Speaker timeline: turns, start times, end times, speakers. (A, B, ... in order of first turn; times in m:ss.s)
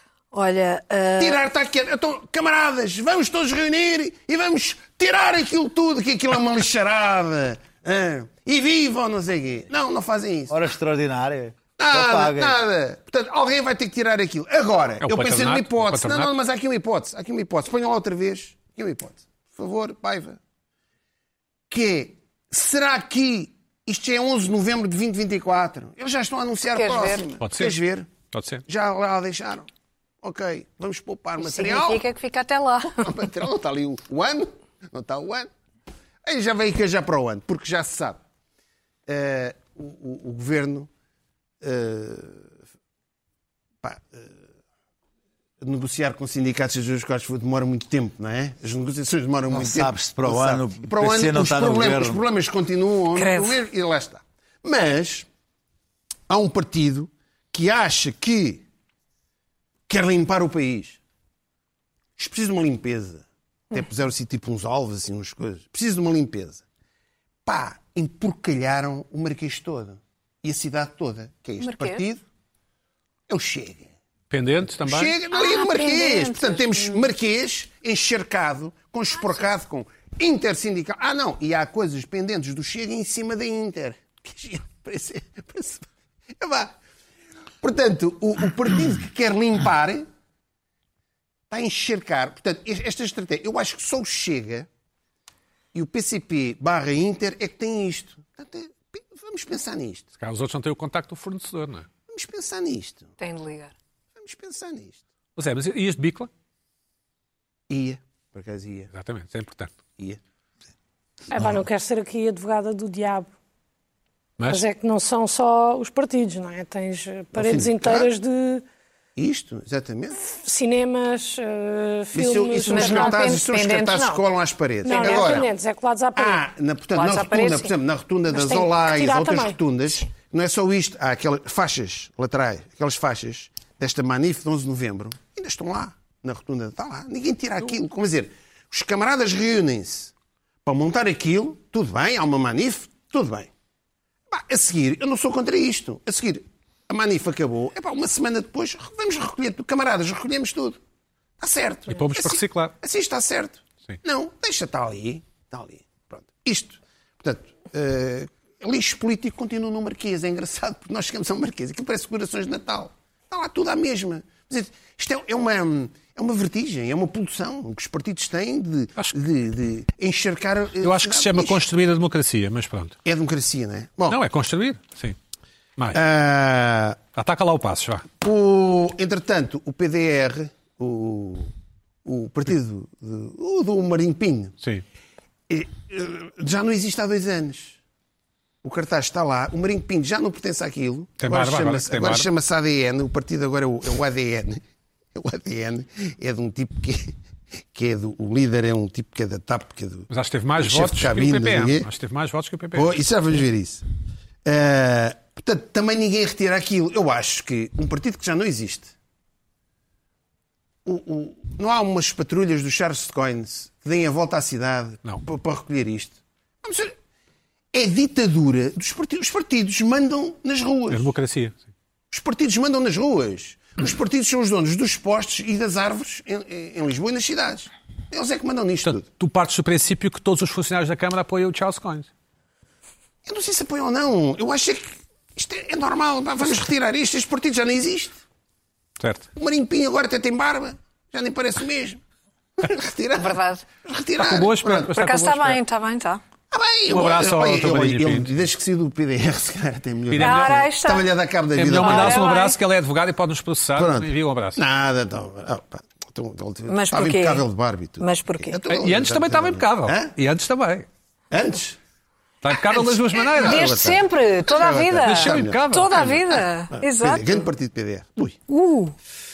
0:00.3-0:01.4 A
0:01.2-0:10.6 B
0:10.5-0:12.6 C
0:11.8-0:20.4 B
0:15.0-0:16.3 D
0:21.7-0:28.1 B
0:26.7-0:27.2 A
0:27.4-0:27.8 D
0:28.3-0:28.6 D
0:28.6-0:29.7 B
0:30.2-0:32.0 B
0:31.4-0:33.1 A
0:33.0-0:35.5 B
0:36.2-0:38.2 B
0:39.1-0:40.9 B
0:41.6-0:42.4 B
0:43.8-0:44.3 B
0:45.6-0:55.3 B
0:49.5-0:52.2 C
0:53.1-0:53.6 A
0:56.3-0:58.6 B
0:59.9-1:01.0 B
1:02.2-1:06.6 B
1:07.4-1:12.2 B
1:11.6-1:12.0 A
1:13.3-1:13.9 B
1:14.3-1:15.1 D
1:14.8-1:26.8 B
1:15.3-1:17.1 A
1:27.6-1:30.1 B
1:31.5-1:34.7 B
1:35.7-1:40.1 B
1:40.2-1:41.9 D
1:42.1-1:43.1 B
1:43.2-1:43.7 A
1:44.2-1:45.0 B
1:45.4-1:46.3 D
1:47.7-1:48.9 B
1:48.9-1:49.7 D
1:51.3-1:53.3 E
1:54.5-1:58.6 E
1:57.3-1:58.1 B
1:59.2-2:00.2 B
2:00.2-2:03.3 E
2:02.1-2:05.5 B
2:02.7-2:04.2 A
2:04.8-2:05.5 A
2:04.8-2:06.4 E
2:06.1-2:20.1 B
2:06.9-2:07.7 A
2:08.3-2:09.6 E
2:20.6-2:23.5 B
2:24.3-2:30.8 B
2:31.4-2:51.6 B
2:31.9-2:32.7 D
2:50.8-2:53.0 D
2:53.0-2:54.2 B
2:54.1-2:55.2 D
2:55.9-2:57.0 B
2:57.1-2:58.1 D
2:58.2-3:01.5 B
3:02.0-3:04.6 B
3:05.5-3:07.8 B
3:08.6-3:14.6 B
3:11.2-3:12.3 D
3:15.1-3:17.1 B
3:17.7-3:21.9 B
3:20.1-3:22.9 D
3:22.7-3:23.8 B
3:24.4-3:28.9 B
3:30.8-3:36.9 B
3:37.7-3:41.1 B
3:40.9-3:41.6 D
3:42.1-3:49.0 B
3:48.8-3:52.1 D
3:53.2-3:58.2 B
3:59.0-3:59.3 D
3:59.4-4:02.0 B
4:02.6-4:04.9 B
4:03.2-4:03.6 A
4:04.2-4:05.6 D
4:04.9-4:06.2 A
4:06.5-4:12.3 B
4:06.9-4:08.3 D
4:10.1-4:10.7 D
4:10.2-4:11.1 A
4:11.5-4:14.6 D
4:11.7-4:12.6 A
4:13.8-4:20.1 B
4:16.7-4:17.4 A
4:18.0-4:18.6 A
4:18.7-4:20.8 D
4:21.3-4:21.8 B
4:22.4-4:23.7 D
4:22.7-4:28.4 B
4:23.4-4:27.5 A
4:25.0-4:26.1 D
4:28.5-4:28.9 A